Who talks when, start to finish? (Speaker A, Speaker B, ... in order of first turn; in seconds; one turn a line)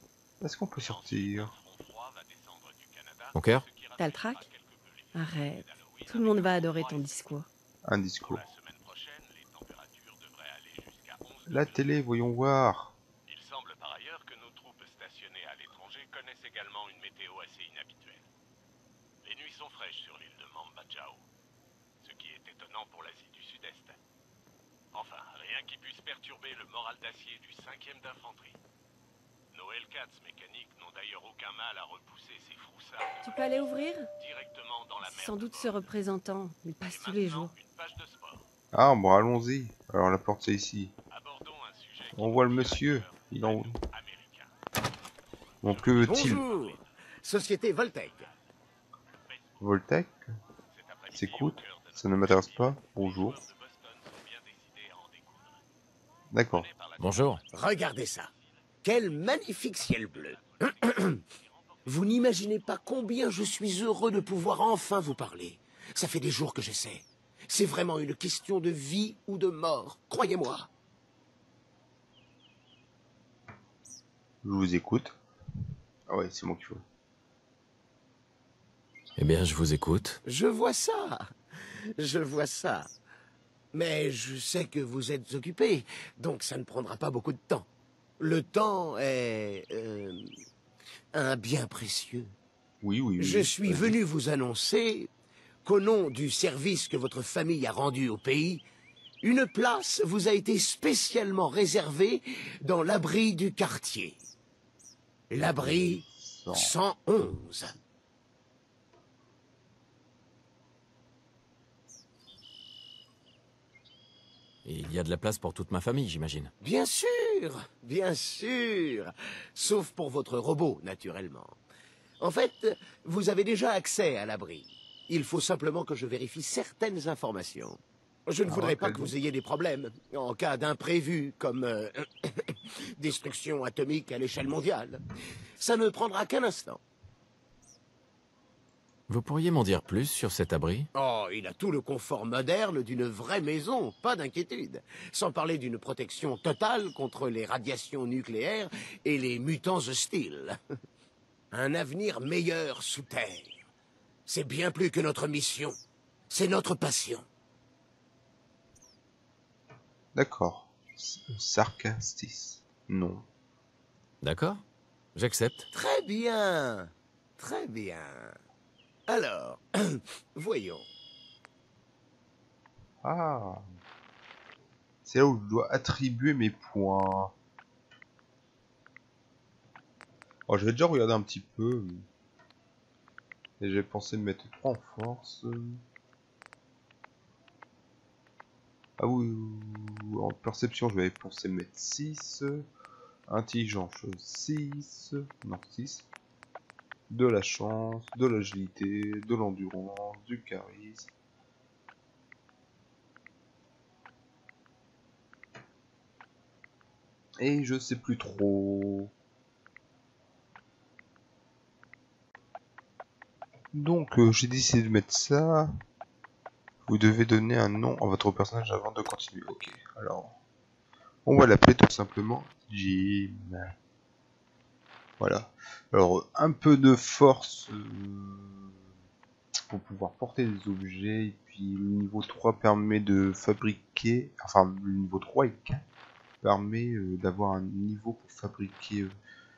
Speaker A: 0.4-1.5
Speaker B: 0.8-7.1
Speaker C: 3.3-3.6
Speaker D: 4.0-4.5
Speaker D: 5.1-7.5
Speaker A: 7.8-8.4
Speaker B: 8.3-11.9
Speaker A: 11.5-12.9
Speaker B: 13.3-18.3
Speaker B: 19.2-21.2
Speaker B: 22.0-24.0
Speaker B: 24.9-28.6
Speaker B: 29.5-35.9
Speaker D: 33.2-34.1
Speaker D: 35.0-37.5
Speaker B: 36.9-38.5
Speaker A: 38.7-40.9
Speaker B: 41.1-44.5
Speaker A: 42.1-43.8
Speaker A: 45.6-46.4
Speaker B: 45.6-46.9
Speaker E: 46.0-48.3
Speaker A: 49.6-50.3
Speaker B: 50.7-55.6
Speaker A: 51.1-53.4
Speaker A: 56.3-56.7
Speaker B: 56.5-57.4
Speaker C: 57.0-57.4
Speaker E: 57.5-58.3
Speaker E: 58.8-61.2
Speaker B: 59.8-60.7
Speaker E: 61.9-70.7
Speaker A: 74.4-75.2
Speaker A: 76.1-76.8
Speaker C: 79.2-80.2
Speaker E: 80.2-82.9
Speaker E: 83.7-87.7
Speaker E: 88.2-90.3
Speaker E: 91.1-92.3
Speaker A: 92.8-94.0
Speaker E: 93.2-95.1
Speaker E: 95.6-98.6
Speaker E: 99.2-104.2
Speaker E: 105.3-107.7
Speaker A: 105.4-106.8
Speaker C: 114.6-116.5
Speaker E: 116.6-121.6
Speaker E: 122.2-135.0
Speaker A: 128.4-129.1
Speaker E: 135.6-136.8
Speaker C: 139.1-140.9
Speaker E: 140.9-150.6
Speaker E: 151.5-153.6
Speaker E: 154.2-155.8
Speaker E: 156.3-157.2
Speaker A: 160.1-163.2
Speaker C: 164.2-164.6
Speaker C: 165.1-165.7
Speaker E: 165.7-168.3
Speaker E: 169.1-170.9
Speaker A: 173.0-173.6
Speaker A: 175.0-177.3
Speaker A: 180.5-182.0
Speaker A: 183.6-185.8
Speaker A: 189.0-192.6
Speaker A: 193.3-196.1
Speaker A: 197.1-201.1
Speaker A: 207.4-209.1
Speaker A: 213.7-215.7
Speaker A: 216.9-220.3
Speaker A: 221.2-223.7
Speaker A: 225.2-228.9
Speaker A: 229.7-235.8
Speaker A: 236.4-239.2